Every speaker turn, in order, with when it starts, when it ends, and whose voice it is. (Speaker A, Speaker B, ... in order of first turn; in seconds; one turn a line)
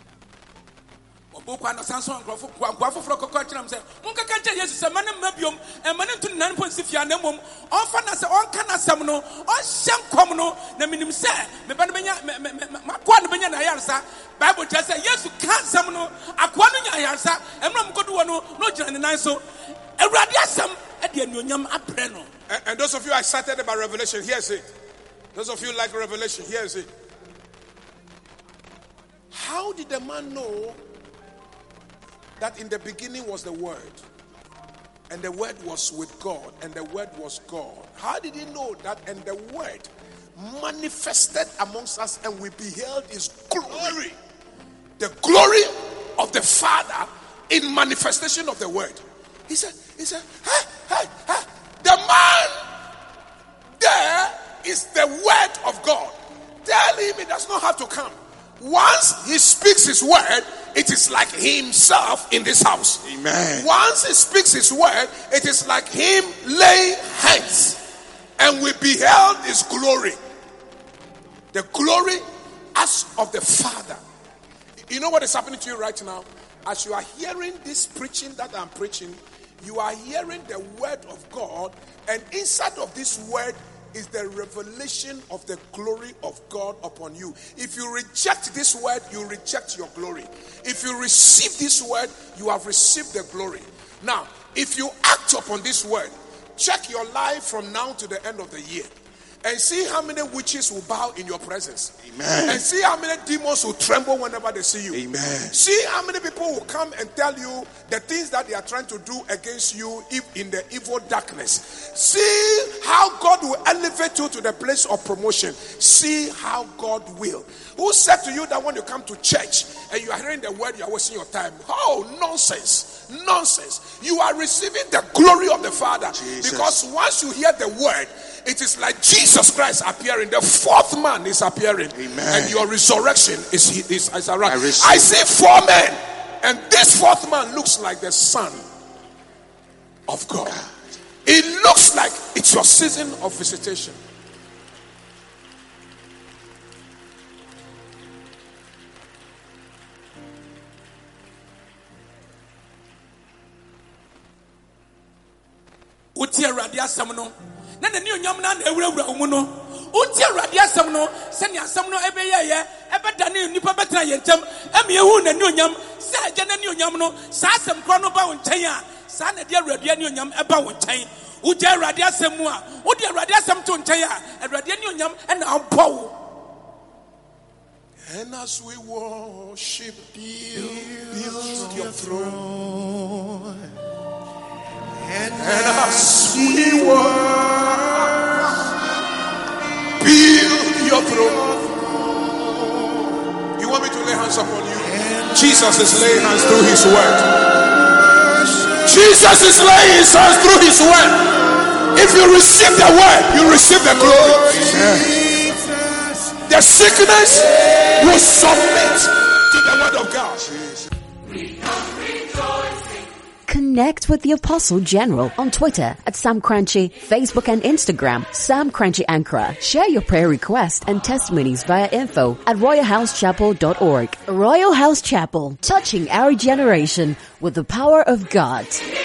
Speaker A: 1.3-19.4
Speaker A: 20.0-22.3
Speaker B: 22.5-24.7
Speaker B: 25.3-26.9
Speaker B: 29.3-30.8
Speaker B: 32.4-34.0
Speaker B: 35.1-44.2
Speaker B: 45.0-52.7
Speaker B: 53.8-63.0
Speaker C: 63.0-63.7
Speaker B: 63.6-67.8
Speaker B: 68.4-70.2
Speaker B: 71.5-74.0
Speaker B: 74.9-98.9
Speaker B: 99.4-138.6
Speaker C: 102.0-102.6
Speaker C: 104.9-105.5
Speaker C: 126.1-126.8
Speaker C: 131.9-132.6
Speaker C: 134.4-135.2
Speaker B: 140.1-140.6
Speaker B: 141.2-144.0
Speaker A: 156.1-176.2
Speaker B: 178.0-182.5
Speaker B: 185.3-188.6
Speaker B: 190.0-191.5
Speaker B: 193.5-197.4
Speaker B: 198.8-201.4
Speaker B: 201.9-204.9
Speaker C: 204.5-205.3
Speaker B: 206.4-210.5
Speaker C: 210.4-210.9
Speaker D: 213.5-228.9